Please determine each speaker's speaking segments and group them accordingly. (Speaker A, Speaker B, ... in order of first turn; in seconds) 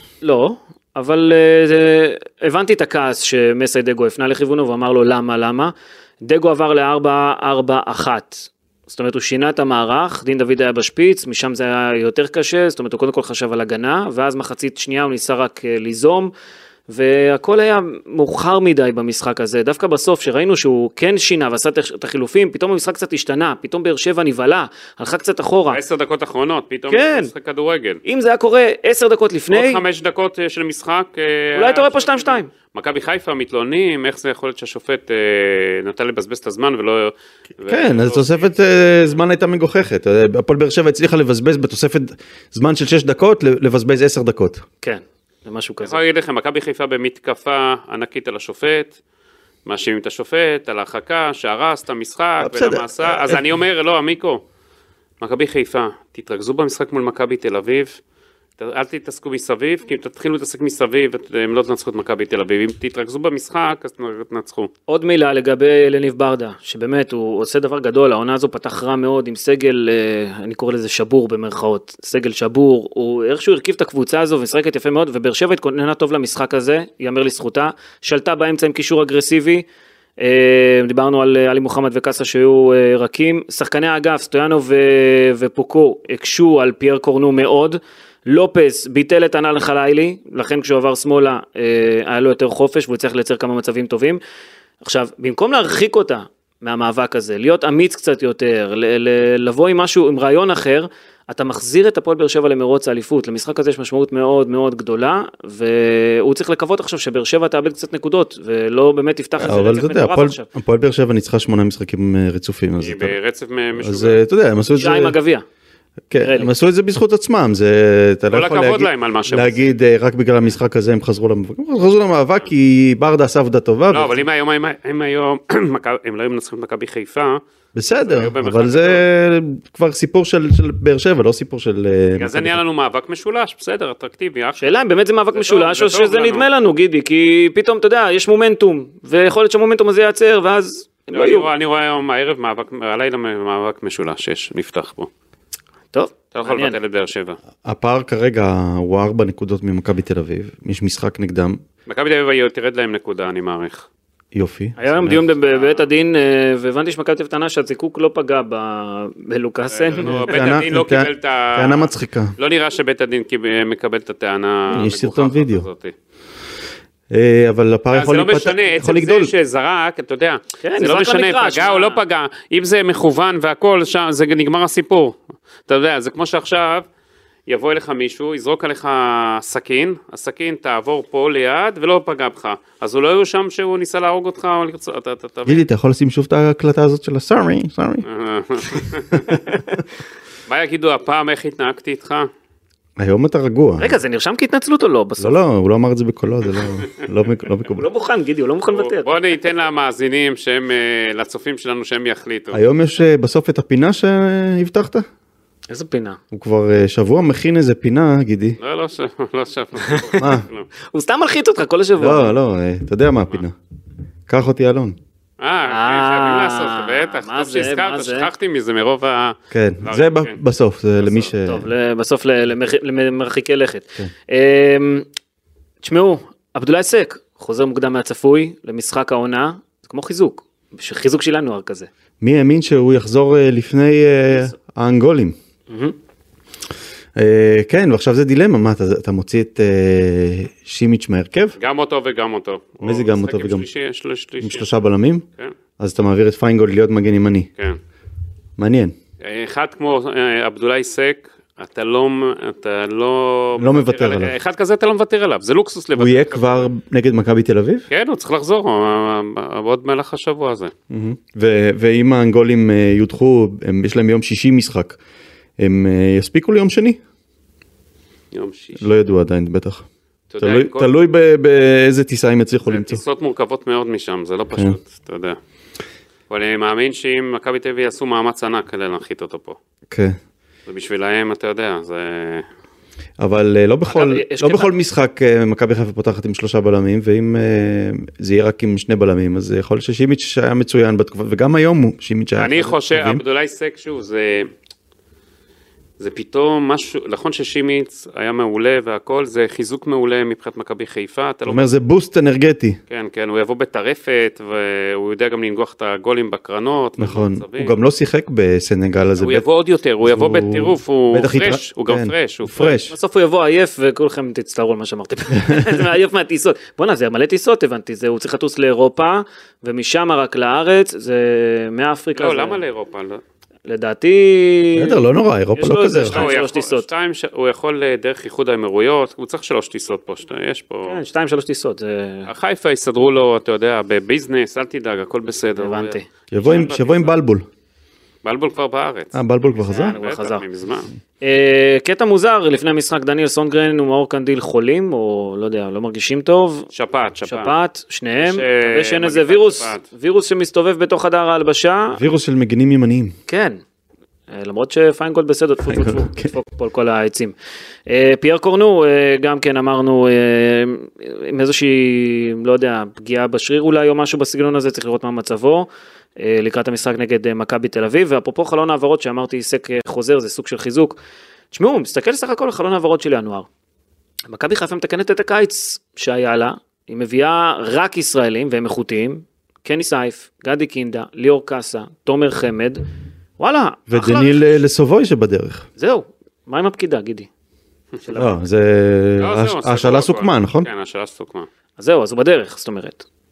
Speaker A: 0.2-16.3, 16.9-25.8, 26.9-27.3, 28.1-29.8, 31.6-32.5, 44.8-46.0, 64.9-79.6, 80.2-94.2, 94.8-110.5, 114.7-115.4, 116.2-116.5, 134.6-141.5, 145.9-146.8, 154.8-160.4, 170.6-172.0, 189.3-189.8, 193.8-195.4, 197.8-199.1, 205.7-206.2, 209.8-210.2, 210.9-212.3, 215.7-218.3, 221.2-225.1, 225.8-231.9, 235.7-235.9, 283.9-284.7, 312.9-322.6, 323.6-325.0, 325.6-326.9, 330.9-332.3, 335.6-336.1, 339.7-340.4, 341.2-346.7, 347.2-352.0, 353.3-353.6, 354.3-357.4, 357.9-371.0, 371.5-373.5, 374.3-382.8, 383.4-384.6, 385.8-387.3, 388.1-388.4, 391.8-393.1
Speaker B: 25.7-28.0, 29.5-38.5, 45.8-49.0, 49.7-54.4, 55.2-58.0, 58.6-64.7, 112.8-114.2, 118.3-119.7, 123.9-127.4, 128.0-129.0, 132.1-134.7, 135.3-136.5, 141.1-145.1, 146.3-147.4, 151.9-153.9, 155.4-155.9, 159.7-165.9, 167.9-176.9, 177.5-185.6, 188.1-189.4, 190.5-192.3, 198.7-202.6, 208.6-210.7, 215.4-220.4, 241.6-244.7, 249.2-256.6, 257.9-260.7, 268.3-268.9, 270.3-270.9, 272.7-275.4, 276.3-279.6, 280.7-282.4, 292.4-294.5, 296.0-301.7, 302.9-307.8, 309.2-312.8, 322.2-323.2, 326.1-331.0, 332.3-337.2, 338.2-340.9, 346.7-347.5, 348.2-349.8, 389.2-391.5
Speaker C: 37.7-44.6, 52.4-53.4, 109.4-113.2, 113.8-115.1, 116.1-124.2, 127.8-132.6, 147.6-151.6, 154.3-155.2, 160.0-162.3, 164.7-165.7, 167.1-169.3, 185.4-188.1, 193.0-193.9, 195.2-197.8, 202.5-205.1, 206.3-208.6, 210.2-210.4, 212.0-213.6, 214.3-215.0, 219.5-221.7, 232.2-235.3, 237.2-241.6, 242.8-243.7, 244.4-245.2, 245.8-247.5, 248.6-248.9, 253.6-254.3, 255.9-257.9, 260.9-265.0, 265.6-267.0, 268.8-269.9, 270.4-273.0, 279.9-280.2, 283.2-293.2, 301.4-302.8, 307.0-309.4, 310.0-312.9, 324.8-326.3, 336.3-337.4, 339.1-339.9, 351.9-353.1, 355.7-356.3, 383.9-385.6, 388.1-390.7